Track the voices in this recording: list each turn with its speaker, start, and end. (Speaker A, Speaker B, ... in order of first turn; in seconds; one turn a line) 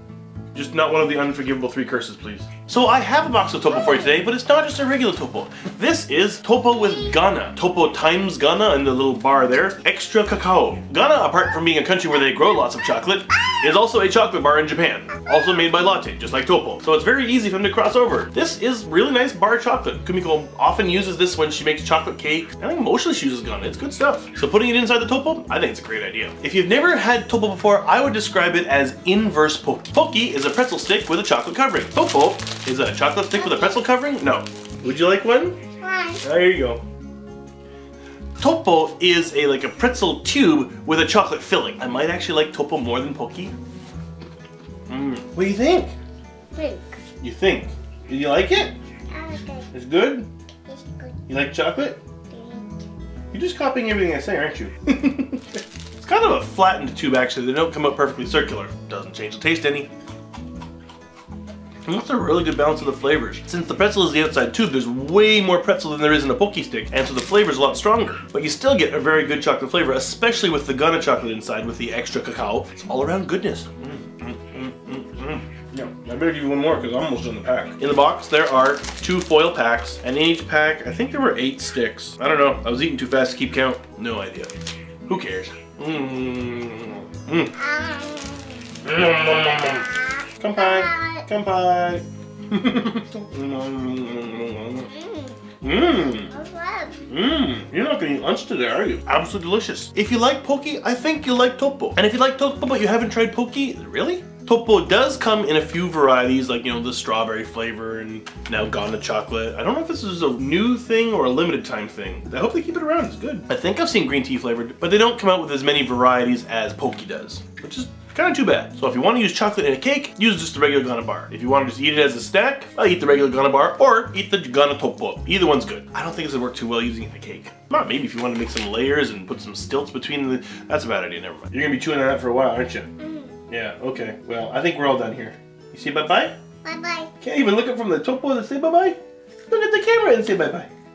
Speaker A: 0.5-35.6
Speaker B: 3.7-4.2
Speaker B: 6.8-7.1
Speaker B: 33.4-33.8
Speaker B: 35.8-36.2
Speaker A: 36.2-36.8
Speaker A: 38.4-43.5
Speaker A: 44.9-45.9
Speaker B: 46.5-46.9
Speaker A: 47.2-48.7
Speaker B: 49.1-49.7
Speaker A: 49.7-50.3
Speaker B: 50.7-51.2
Speaker A: 51.3-52.0
Speaker B: 52.3-52.8
Speaker A: 53.3-59.9
Speaker A: 61.8-84.5
Speaker A: 85.1-87.5
Speaker B: 87.5-91.2
Speaker A: 88.8-89.9
Speaker A: 90.4-94.9
Speaker B: 94.8-95.4
Speaker A: 95.6-96.3
Speaker B: 96.0-97.0
Speaker A: 97.1-132.9
Speaker B: 133.0-133.3
Speaker A: 133.5-136.3
Speaker B: 136.6-137.1
Speaker A: 137.2-139.0
Speaker A: 139.5-140.7